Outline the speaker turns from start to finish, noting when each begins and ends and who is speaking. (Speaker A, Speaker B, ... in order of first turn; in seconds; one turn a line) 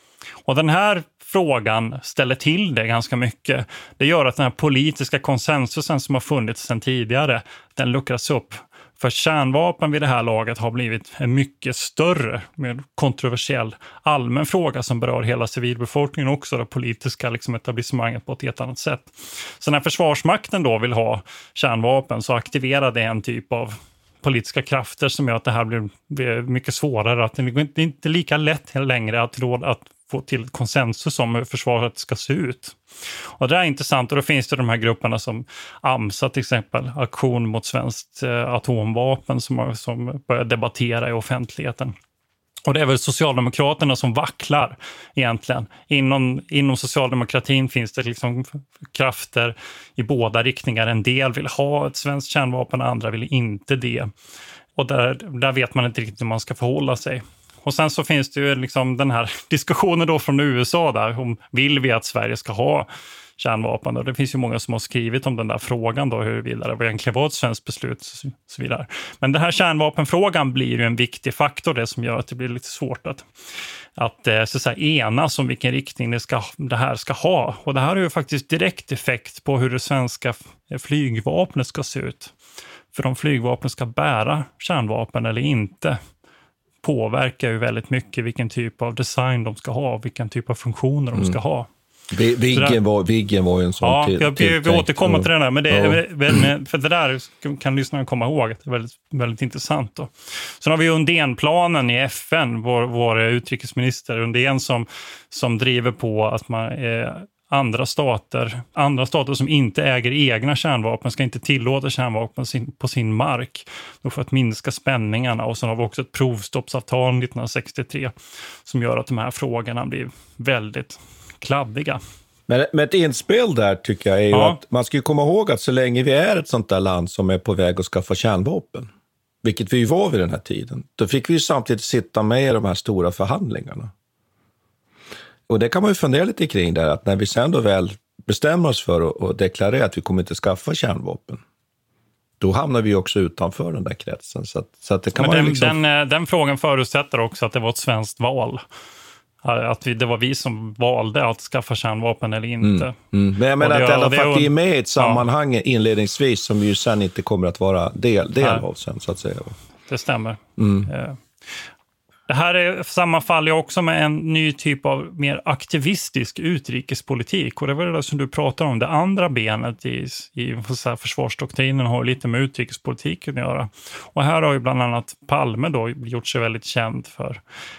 Speaker A: 0.5-32.8
Speaker A: 33.4-41.9
Speaker A: 42.7-54.1
Speaker A: 54.8-73.3
Speaker A: 74.0-82.3
Speaker A: 82.9-86.0
Speaker A: 86.8-91.7
Speaker B: 92.1-96.5
Speaker A: 92.5-92.8
Speaker A: 93.8-118.1
Speaker A: 118.7-122.0
Speaker B: 122.5-128.9
Speaker A: 124.3-124.6
Speaker B: 129.4-133.9
Speaker B: 135.5-141.4
Speaker B: 142.4-145.8
Speaker A: 145.2-148.6
Speaker A: 149.4-153.0
Speaker B: 152.6-159.6
Speaker A: 153.6-155.2
Speaker A: 158.4-158.7
Speaker A: 159.9-161.2
Speaker B: 160.6-160.9
Speaker A: 162.3-177.4